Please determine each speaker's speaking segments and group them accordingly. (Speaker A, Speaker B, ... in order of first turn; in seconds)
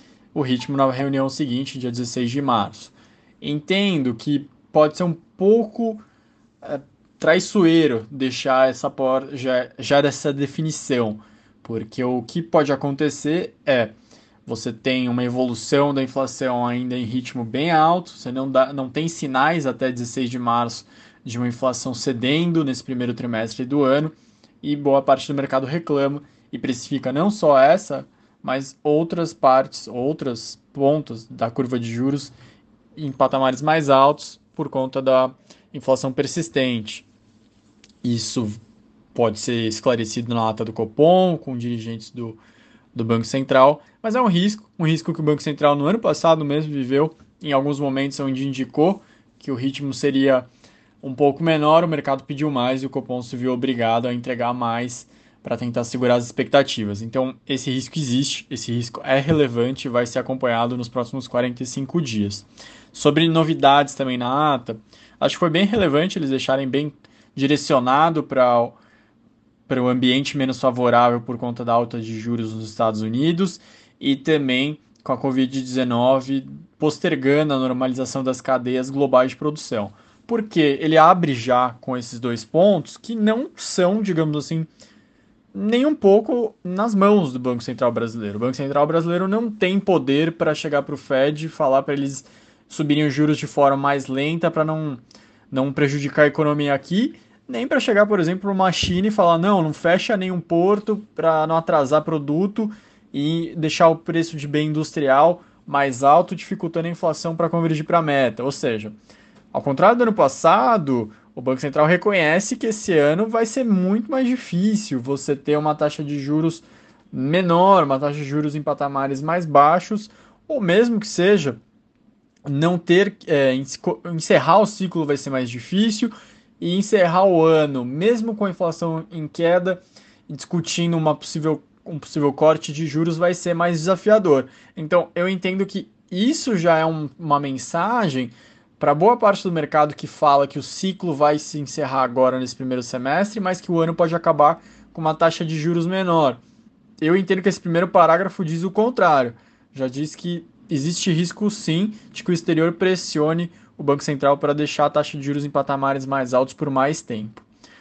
Speaker A: 0.3-6.0, 6.6-13.9, 14.4-32.3, 33.0-37.1, 38.0-38.6, 39.1-42.4, 42.9-50.5, 51.0-68.8, 69.7-84.7, 85.5-108.9, 109.5-121.6, 122.5-146.4, 147.0-157.4